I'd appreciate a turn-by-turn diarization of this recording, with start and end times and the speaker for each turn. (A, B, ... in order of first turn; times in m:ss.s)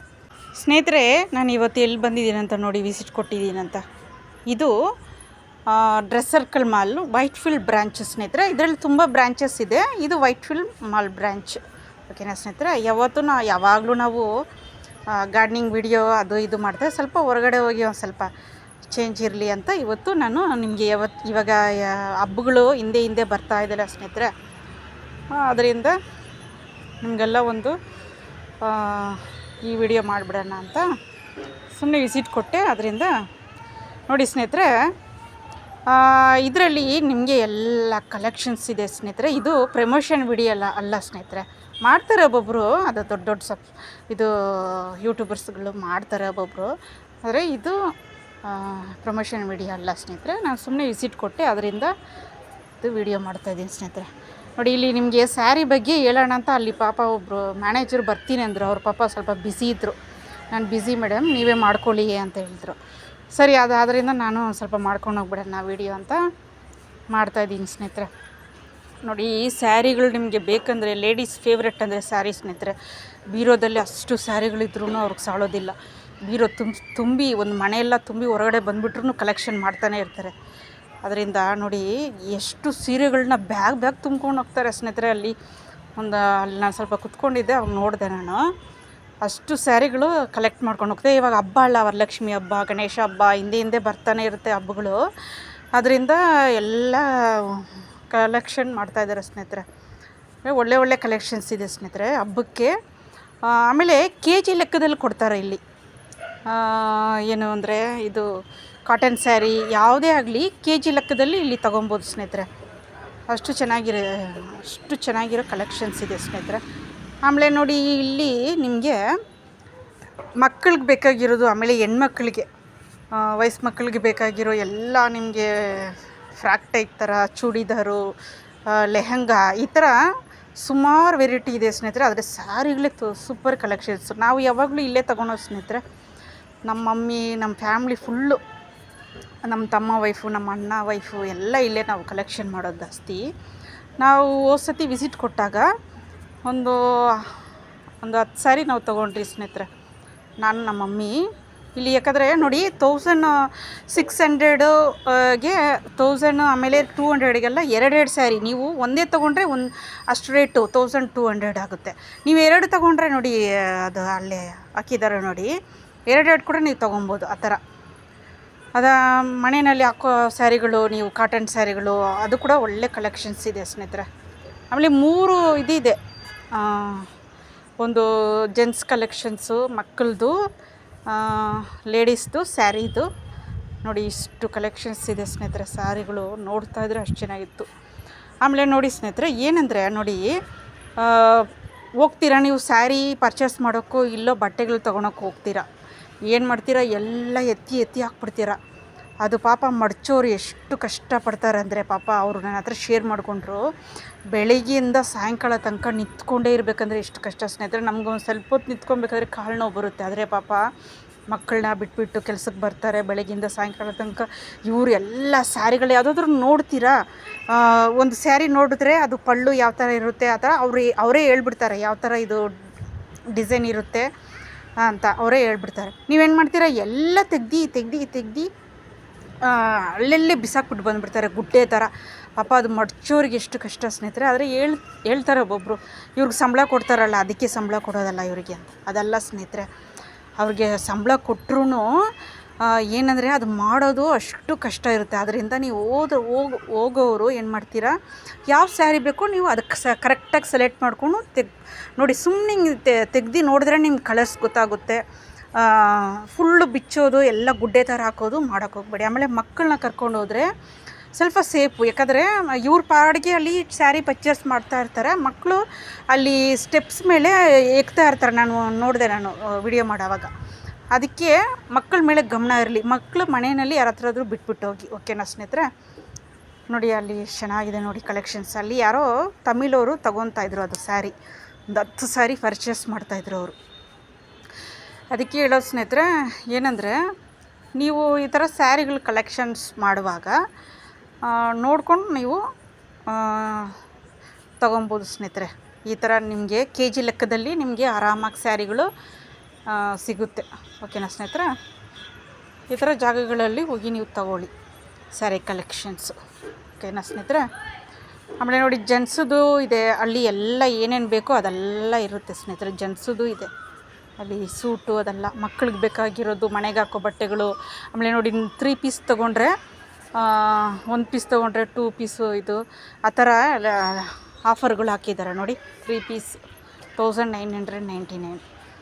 0:00.6-0:03.8 A
0:04.5-0:04.7 A
0:05.7-0:14.3 A
0:15.1-0:18.3 A
0:18.8-0:24.3 A
0:25.3-0:26.0 A
0:27.0-0:27.8 A
0:28.6-0:30.9 A
0:31.7-0:33.2 A
0:34.1-0:34.9 A
0:35.8-0:46.7 A
0:47.2-0:47.8 A
0:48.4-0:51.9 A
0:52.8-1:00.0 A
1:00.5-1:02.8 A
1:03.3-1:06.2 A
1:07.1-1:08.1 A
1:09.0-1:12.8 A
1:13.3-1:20.3 A
1:21.0-1:25.4 A
1:26.0-1:28.5 A
1:29.2-1:35.0 A
1:35.7-1:39.6 A
1:40.4-1:42.7 A
1:43.4-1:45.6 A
1:46.5-1:48.3 A
1:48.9-1:52.5 A
1:53.3-1:56.6 A
1:57.2-1:59.0 A
2:00.4-2:02.5 A
2:03.1-2:08.1 A
2:08.7-2:10.0 A
2:10.6-2:15.8 A
2:16.6-2:18.4 A
2:19.4-2:23.2 A
2:24.0-2:25.7 A
2:26.4-2:27.4 A
2:28.0-2:29.7 A
2:30.4-2:45.5 A
2:46.1-2:47.6 A
2:48.7-2:54.1 A
2:54.7-2:56.0 A
2:56.5-2:57.1 A
2:57.8-3:00.4 A
3:01.0-3:03.1 A
3:03.8-3:07.7 A
3:08.4-3:10.4 A
3:11.0-3:15.7 A
3:16.3-3:18.6 A
3:19.2-3:23.6 A
3:24.3-3:30.7 A
3:31.3-3:42.5 A
3:43.3-3:44.1 A
3:44.8-3:48.5 A
3:49.4-3:59.7 A
4:00.4-4:02.0 A
4:02.6-4:15.0 A
4:15.5-4:20.5 A
4:21.1-4:30.3 A
4:30.9-4:35.7 A
4:36.7-4:41.1 A
4:41.7-4:43.6 A
4:45.1-4:47.0 A
4:47.8-4:50.4 A
4:51.2-4:52.4 A
4:53.0-4:53.8 A
4:54.6-4:58.9 A
4:59.7-5:01.5 A
5:02.7-5:04.5 A
5:05.1-5:06.2 A
5:06.8-5:07.5 A
5:08.4-5:13.5 A
5:14.2-5:19.5 A
5:20.1-5:26.4 A
5:27.0-5:28.4 A